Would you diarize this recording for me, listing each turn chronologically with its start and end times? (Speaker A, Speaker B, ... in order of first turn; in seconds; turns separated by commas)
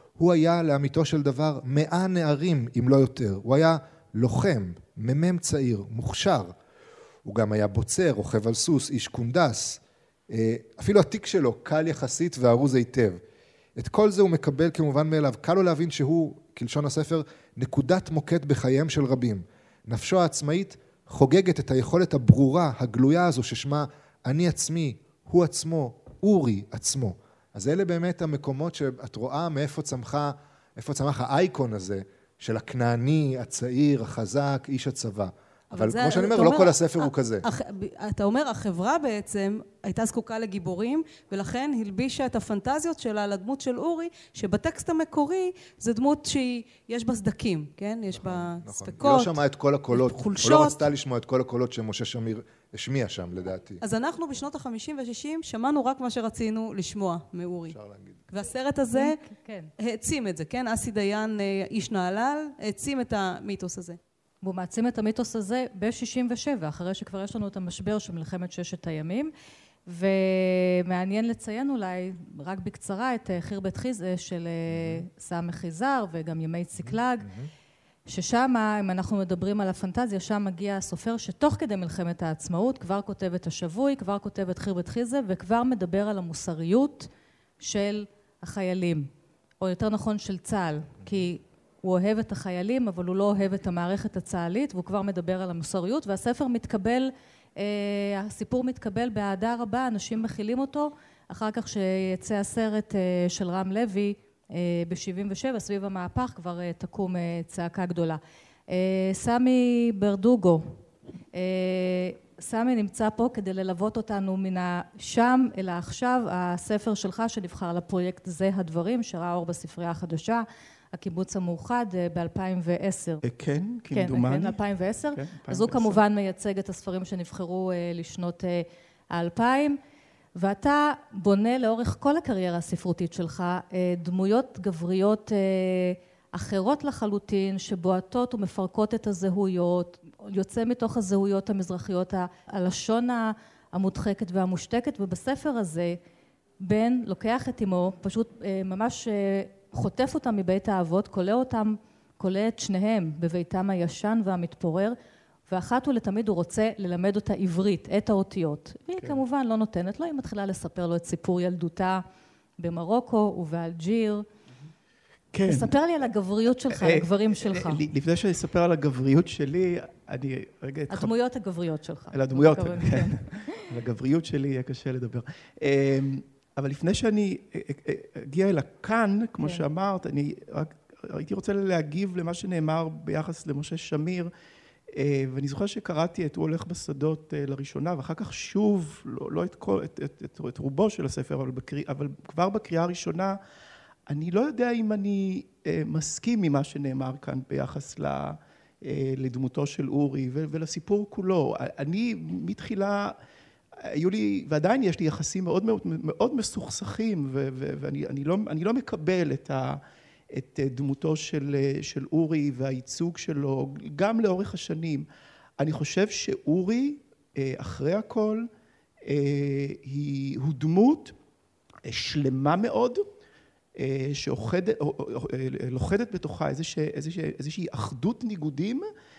Speaker A: 0.2-6.5, Speaker A: 7.2-13.2, Speaker A: 13.8-37.5, Speaker B: 35.7-49.4, Speaker A: 48.1-53.8, Speaker B: 49.9-50.9, Speaker B: 53.8-57.8, Speaker A: 57.7-58.2, Speaker B: 58.3-59.2, Speaker C: 58.9-59.7, Speaker B: 59.8-64.0, Speaker C: 64.4-69.3, Speaker C: 69.9-77.3, Speaker A: 74.7-75.0, Speaker A: 76.8-77.5, Speaker C: 78.1-87.1, Speaker C: 87.6-89.1, Speaker C: 89.6-110.8, Speaker C: 111.3-123.2, Speaker D: 123.2-124.6, Speaker C: 123.9-129.8, Speaker D: 125.1-126.0, Speaker C: 130.4-146.0, Speaker C: 146.6-155.0, Speaker C: 155.5-162.0, Speaker C: 162.6-164.2, Speaker D: 165.3-165.7, Speaker C: 165.4-167.8, Speaker D: 166.7-171.1, Speaker C: 170.9-173.6, Speaker D: 172.1-184.3, Speaker D: 184.9-193.4, Speaker D: 194.1-203.2, Speaker D: 203.9-209.8, Speaker D: 210.3-215.1, Speaker D: 215.6-218.5, Speaker D: 219.0-221.2, Speaker D: 221.8-223.1, Speaker D: 223.8-228.9